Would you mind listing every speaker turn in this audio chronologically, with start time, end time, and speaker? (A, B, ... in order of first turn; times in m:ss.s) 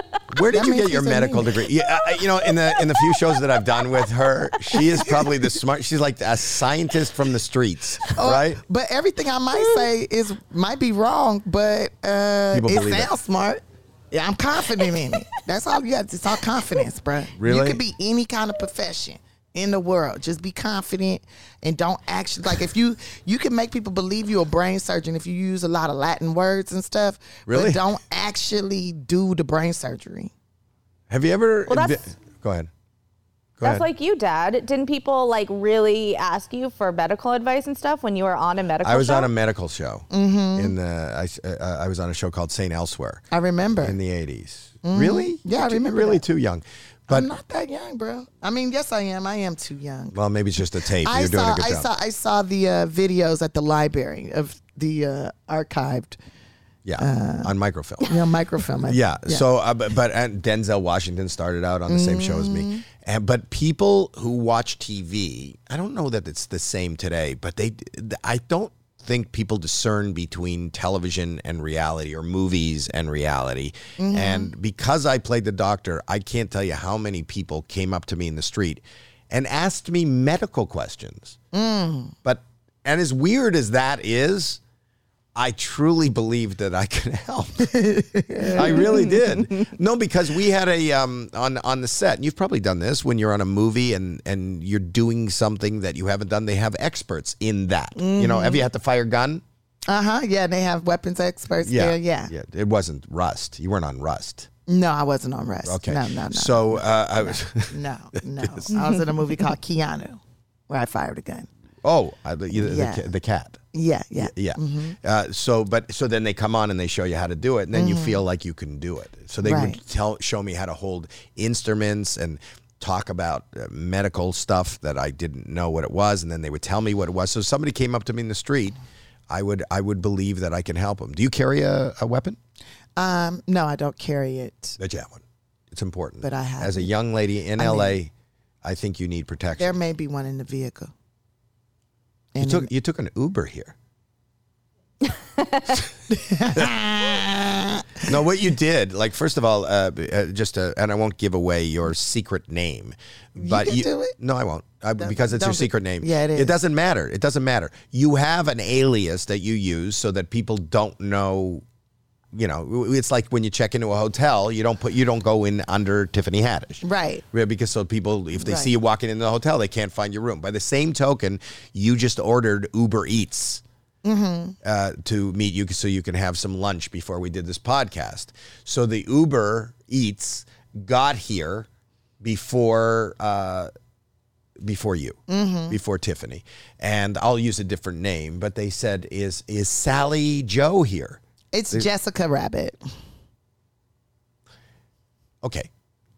0:00.3-0:08.6 A
0:00.4-0:01.6 B
0:02.2-0:03.4 C
0:08.2-0:30.3 B
0:12.5-0:13.1 A
0:17.4-0:17.8 A
0:27.5-0:27.8 A
0:31.1-0:32.7 A
0:31.7-0:32.0 C
0:33.6-0:33.9 A
0:33.6-0:39.3 C
0:38.8-0:43.2 A
0:40.1-0:40.8 B
0:43.3-0:44.0 B
0:43.8-0:47.3 A
0:44.8-0:46.2 B
0:47.1-0:50.2 B
0:50.1-0:51.9 A
0:50.8-0:56.2 B
0:56.8-0:58.1 A
0:57.0-0:59.5 B
0:58.9-1:21.4 A
1:01.9-1:02.8 B
1:14.0-1:14.5 B
1:21.5-1:22.2 B
1:22.2-1:24.6 A
1:25.4-1:27.8 A
1:27.6-1:29.1 B
1:28.5-1:39.4 A
1:38.0-1:38.7 B
1:39.9-1:42.3 B
1:41.6-1:44.5 A
1:44.7-1:51.5 B
1:45.6-1:48.7 A
1:51.8-1:53.6 A
1:52.5-1:53.1 B
1:53.7-1:55.0 B
1:54.2-2:08.8 A
1:57.7-1:58.2 B
1:59.4-1:59.8 B
2:09.3-2:12.4 A
2:13.0-2:14.8 B
2:14.8-2:18.1 A
2:16.2-2:16.9 B
2:17.6-2:18.0 B
2:18.6-2:19.8 A
2:19.6-2:20.9 B
2:22.3-2:22.7 B
2:22.4-2:23.8 A
2:25.4-2:25.6 C
2:26.1-2:28.1 B
2:28.1-2:41.6 A
2:33.4-2:34.1 B
2:35.0-2:36.6 B
2:42.3-2:53.6 A
2:46.8-2:47.2 B
2:48.4-2:48.7 B
2:54.0-2:54.6 B
2:54.6-3:01.7 A
3:02.2-3:03.7 A
3:04.6-3:11.9 A
3:05.3-3:05.8 B
3:11.5-3:12.8 B
3:15.4-3:15.7 A